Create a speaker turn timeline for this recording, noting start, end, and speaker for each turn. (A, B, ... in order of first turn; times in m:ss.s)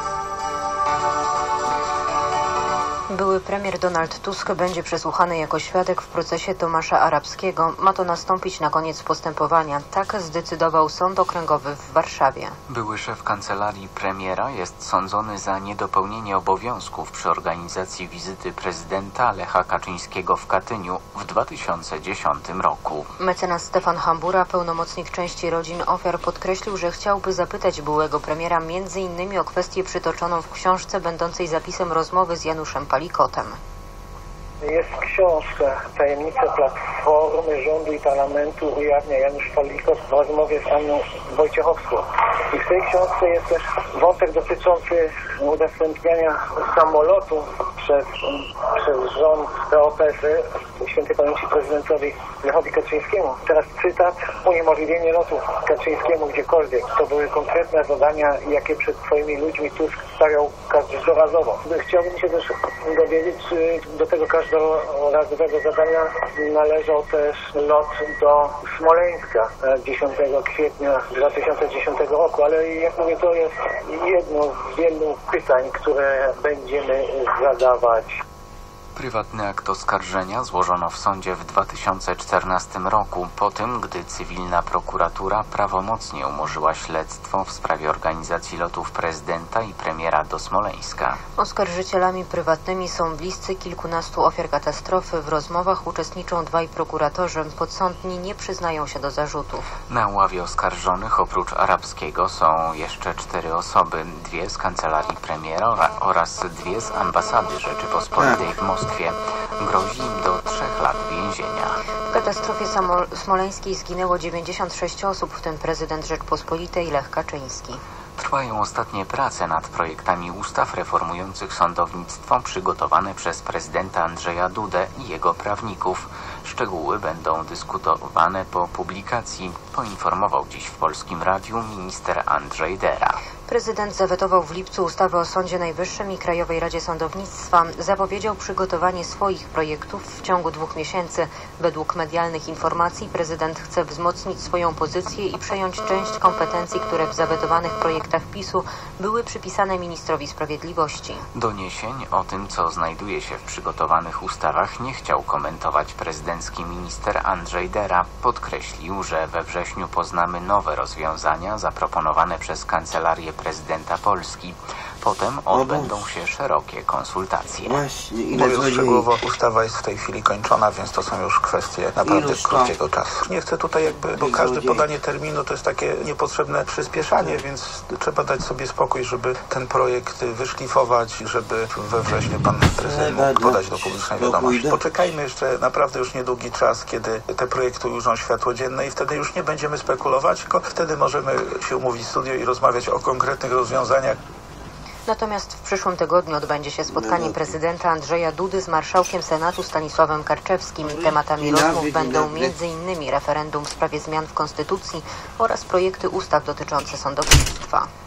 0:03.1-0:12.6 A
0:12.7-0:23.1 B
0:23.2-0:33.6 A
0:34.6-1:18.2 C
1:19.0-1:31.2 B
1:31.4-1:39.7 A
1:39.9-1:51.8 B
1:48.2-1:48.4 D
1:52.1-1:57.8 A
1:58.2-2:13.2 B
2:13.5-2:31.2 A
2:31.3-2:47.8 B
2:45.5-2:46.0 D
2:47.7-2:49.1 D
2:48.3-3:14.2 E
2:52.0-2:52.7 D
2:54.1-2:54.9 D
3:02.8-3:04.8 D
3:15.1-3:27.9 A
3:16.9-3:17.5 D
3:20.8-3:22.5 D